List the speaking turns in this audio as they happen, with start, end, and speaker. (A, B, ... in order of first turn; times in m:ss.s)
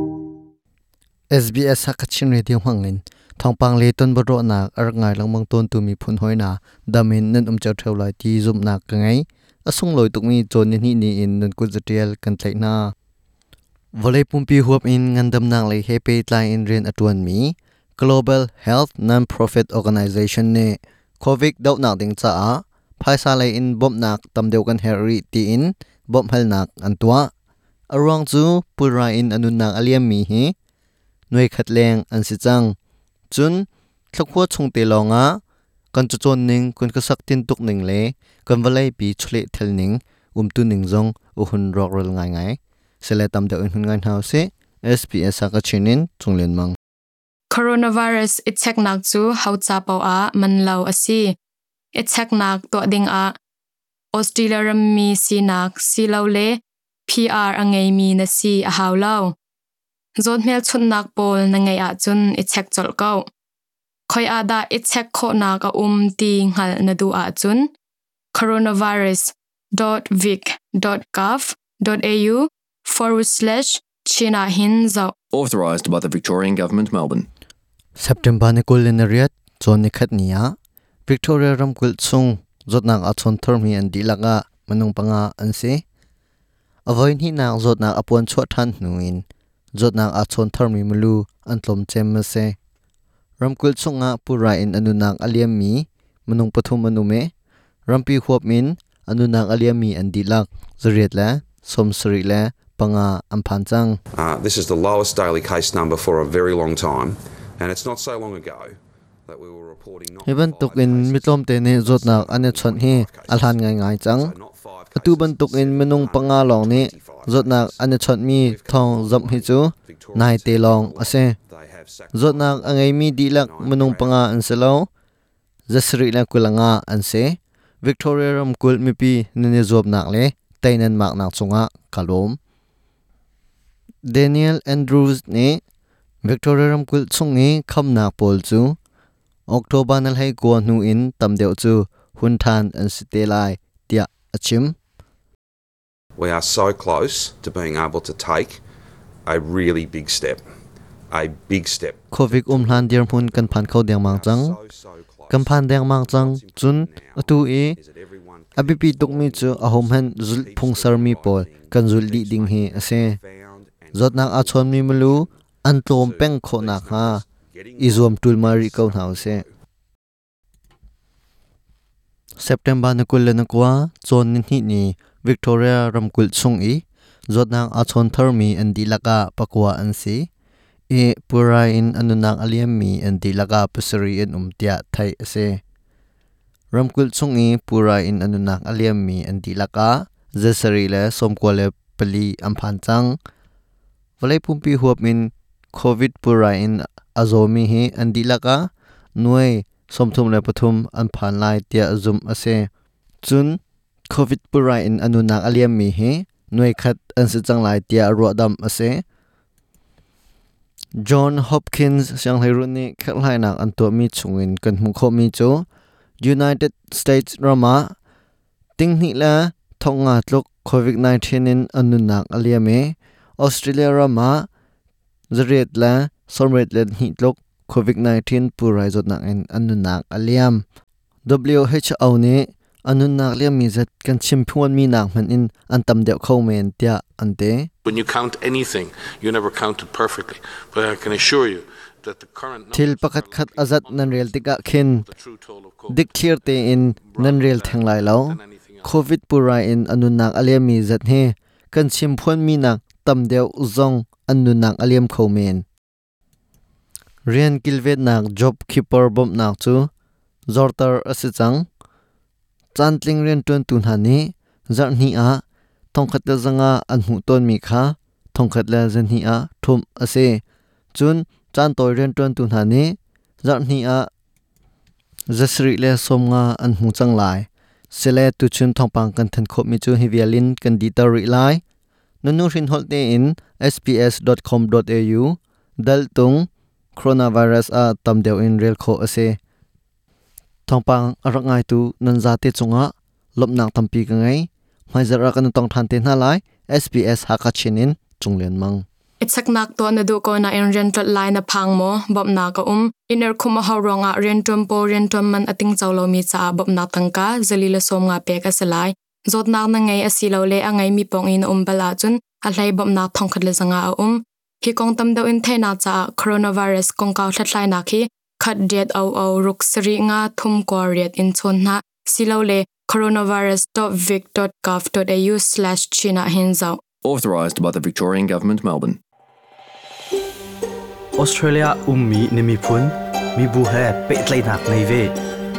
0:01.3-0:12.9 A
0:14.0-0:27.3 A
0:27.9-0:30.5 A
0:31.3-0:32.8 A
0:33.3-0:35.4 A
0:35.9-0:46.8 A
0:47.5-0:51.4 B
0:52.0-0:53.4 B
0:54.1-0:59.4 B
1:00.2-1:03.3 B
1:04.1-1:07.7 B
1:08.3-1:15.1 B
1:15.3-1:17.3 C
1:18.0-1:20.6 A
1:21.1-1:25.8 A
1:26.9-1:32.6 A
1:33.4-1:37.3 A
1:37.9-1:44.0 A
1:44.2-2:04.3 D
1:50.2-1:54.3 A
1:55.0-2:01.4 A
2:02.1-2:04.9 A
2:05.7-2:12.4 A
2:14.0-2:15.6 A
2:16.2-2:18.8 A
2:19.5-2:24.8 A
2:26.2-2:28.6 D
2:29.3-2:30.4 D
2:31.1-2:49.5 D
2:32.1-2:34.6 A
2:35.3-2:37.8 A
2:38.6-2:43.2 A
2:43.9-2:47.2 A
2:47.8-2:49.4 A
2:52.4-3:00.3 A
3:00.9-3:05.6 A
3:06.7-3:13.2 A
3:14.2-3:22.7 A
3:23.2-3:29.0 A
3:31.0-3:35.7 A
3:36.2-3:37.9 A
3:38.8-3:44.5 A
3:45.3-3:50.6 A
3:51.3-3:57.7 A
3:57.8-4:09.0 E
4:02.7-4:05.0 A
4:05.9-4:15.6 A
4:17.3-4:19.9 A
4:20.5-4:21.7 A
4:22.8-4:25.4 A
4:25.9-4:30.4 A
4:30.9-4:34.1 A
4:35.3-4:41.6 A
4:42.2-4:49.4 A
4:50.7-4:58.8 A
4:59.2-5:26.8 B
5:27.0-5:29.0 C
5:31.2-5:35.2 F